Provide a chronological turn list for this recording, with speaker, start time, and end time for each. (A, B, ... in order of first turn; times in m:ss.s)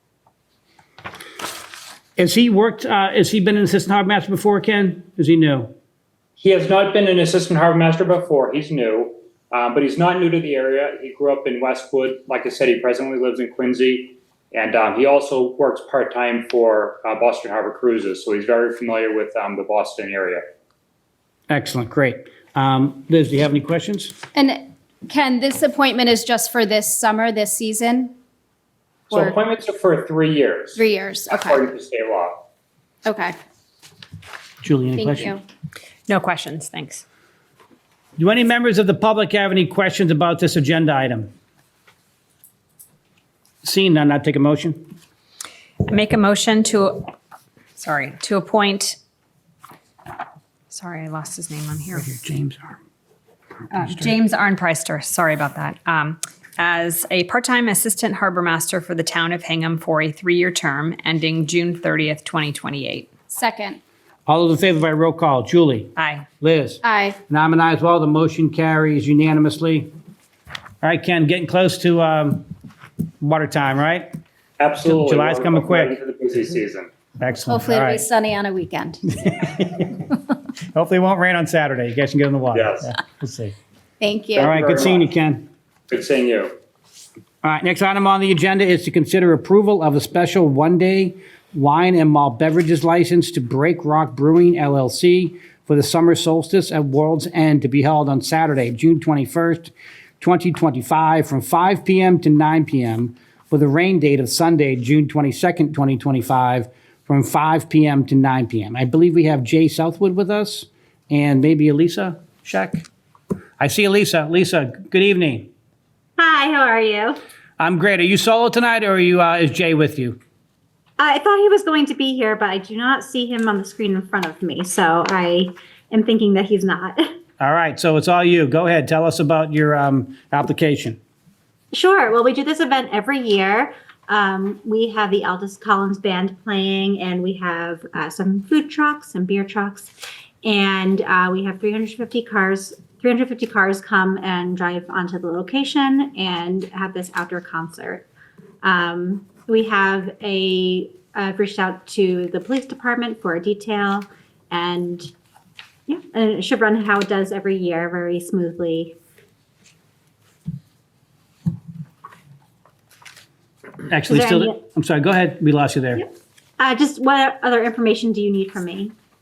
0:02.2-0:05.7 A
0:06.4-0:20.4 B
0:21.5-0:24.2 A
0:24.3-0:28.1 C
0:29.1-0:32.4 B
0:30.8-0:31.6 C
0:33.0-0:33.3 C
0:34.6-0:35.3 A
0:35.0-0:35.4 C
0:36.1-0:37.0 D
0:38.2-0:41.3 A
0:43.6-0:44.8 A
0:45.8-0:47.1 D
0:47.8-0:49.0 D
0:50.7-0:52.2 D
0:52.0-0:52.8 A
0:53.7-1:03.1 D
0:53.7-0:54.1 A
1:03.3-1:03.8 C
1:04.3-1:09.9 A
1:06.0-1:06.3 D
1:06.8-1:07.2 C
1:10.8-1:12.4 A
1:13.2-1:14.1 A
1:14.6-1:16.9 B
1:14.8-1:15.9 A
1:17.2-1:18.0 A
1:17.5-1:19.2 C
1:19.4-1:20.0 A
1:20.7-1:23.6 A
1:22.5-1:22.9 B
1:24.0-1:24.8 C
1:24.4-1:25.0 B
1:24.4-1:25.5 A
1:25.9-1:26.5 B
1:27.4-1:52.8 A
1:53.6-1:55.5 A
1:56.2-1:57.2 E
1:57.6-2:00.2 A
2:01.0-2:07.2 E
2:07.4-2:11.0 A
2:11.7-2:28.0 E
2:28.6-2:35.1 E
2:35.9-2:39.0 E
2:43.9-2:46.0 A
2:44.1-2:44.5 E
2:46.6-2:48.9 E